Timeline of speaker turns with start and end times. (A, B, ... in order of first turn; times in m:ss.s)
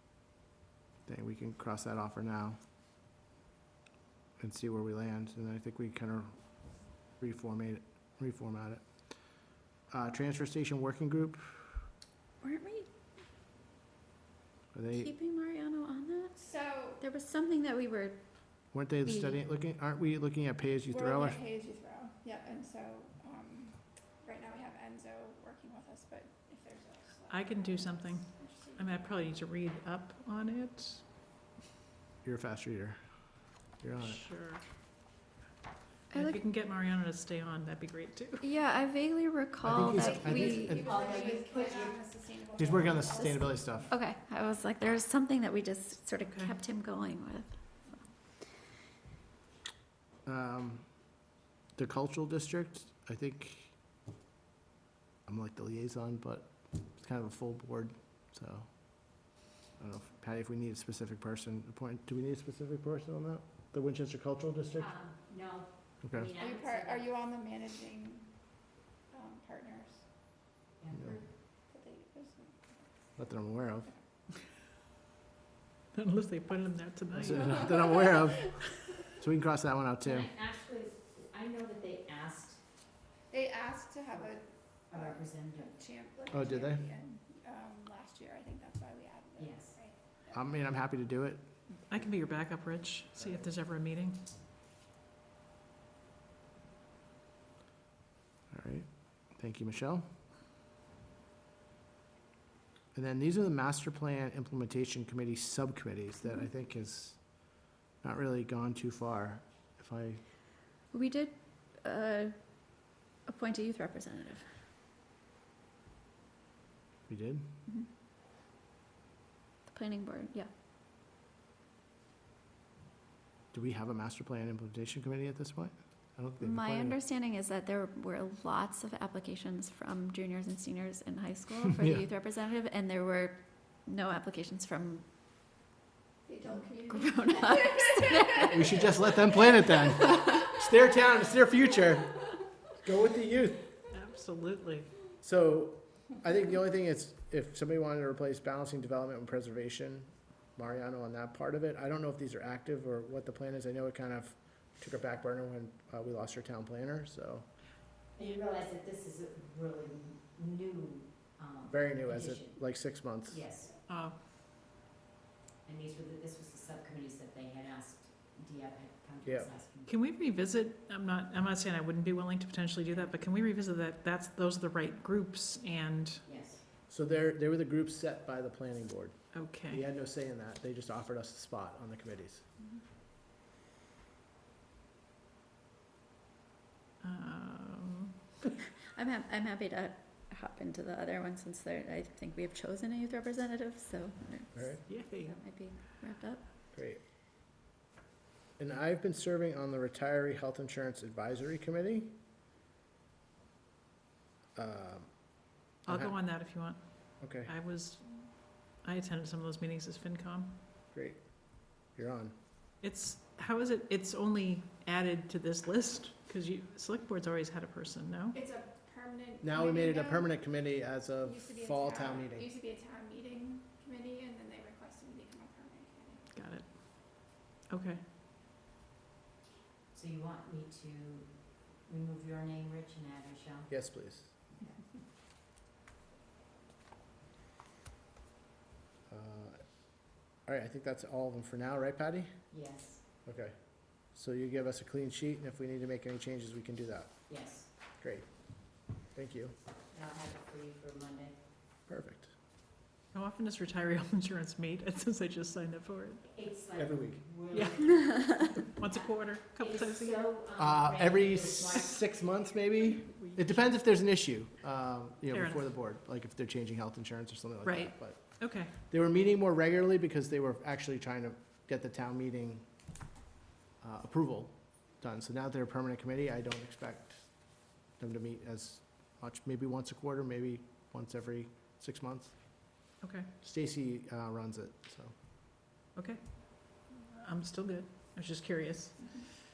0:01.1-0:02.6 A
0:04.4-0:06.4 A
0:07.2-0:08.8 A
0:09.9-0:11.8 A
0:12.4-0:12.9 B
0:14.7-0:15.1 A
0:14.9-0:16.4 B
0:16.4-0:17.0 C
0:17.0-0:18.2 B
0:18.7-0:21.4 A
0:19.0-0:19.4 B
0:20.9-0:29.0 C
0:27.3-0:31.0 D
0:32.2-0:33.0 A
0:33.8-0:34.2 A
0:34.0-0:34.6 D
0:36.1-0:36.4 B
0:36.1-0:38.4 D
0:38.4-0:40.8 B
0:39.6-0:40.9 A
0:40.2-0:43.6 C
0:40.8-0:42.0 E
0:42.6-0:43.9 A
0:43.9-0:48.0 B
0:46.3-0:46.5 D
0:50.3-0:50.9 A
0:51.8-0:53.7 A
0:55.3-0:58.7 A
0:59.8-1:04.9 A
1:04.8-1:07.1 E
1:06.0-1:06.3 A
1:06.4-1:08.3 C
1:09.1-1:10.0 C
1:10.8-1:11.2 E
1:11.7-1:12.8 C
1:13.2-1:13.9 A
1:15.9-1:17.7 D
1:17.1-1:20.3 A
1:20.0-1:22.6 E
1:23.3-1:30.3 C
1:24.9-1:25.8 E
1:26.3-1:26.8 A
1:29.4-1:29.8 E
1:30.3-1:31.4 A
1:31.9-1:34.2 D
1:38.5-1:40.0 A
1:42.9-1:47.2 A
1:48.0-1:50.2 A
1:50.9-1:54.5 B
1:57.1-1:57.5 A
1:59.7-2:00.5 B
2:03.5-2:07.0 A
2:06.4-2:15.1 B
2:16.3-2:18.4 C
2:16.5-2:18.8 B
2:18.4-2:22.2 A
2:20.0-2:20.6 B
2:22.8-2:23.7 A
2:23.9-2:24.9 D
2:25.2-2:37.5 A
2:38.2-2:42.6 E
2:41.7-2:43.4 A
2:43.3-2:43.7 E
2:43.9-2:44.2 D
2:45.6-2:49.9 E
2:49.2-2:49.5 A
2:49.9-2:56.2 D
2:56.2-2:56.6 E
2:56.9-3:02.4 A
2:59.3-2:59.8 D
3:07.0-3:08.2 D
3:08.8-3:16.5 B
3:14.9-3:15.3 D
3:16.7-3:17.0 A
3:18.6-3:22.2 A
3:24.6-3:25.2 A
3:25.9-3:30.6 D
3:25.9-3:26.2 A
3:27.2-3:27.5 A
3:30.9-3:31.2 A
3:31.8-3:32.3 A
3:32.8-3:38.4 D
3:38.3-3:40.2 C
3:39.4-3:42.5 A
3:41.2-3:46.2 C
3:46.3-3:48.0 D
3:49.9-3:51.3 E
3:51.8-3:53.7 E
3:53.7-3:54.3 A
3:59.1-3:59.6 A
4:00.5-4:02.3 A
4:02.5-4:03.0 E
4:03.2-4:03.6 A
4:04.1-4:07.2 A
4:07.3-4:07.7 E
4:08.0-4:08.3 A
4:09.1-4:09.5 A
4:09.9-4:11.3 E
4:11.9-4:12.3 A
4:13.1-4:16.3 D
4:16.4-4:18.6 E
4:16.8-4:17.3 A
4:17.5-4:17.8 D
4:18.0-4:18.4 B
4:18.6-4:20.2 D
4:19.6-4:21.9 E
4:20.6-4:32.7 A
4:22.9-4:23.7 D
4:25.3-4:25.7 D
4:27.6-4:28.7 D
4:33.8-4:37.3 A
4:37.9-4:42.4 A
4:43.0-4:43.3 D
4:43.4-4:45.1 A
4:45.9-4:49.3 D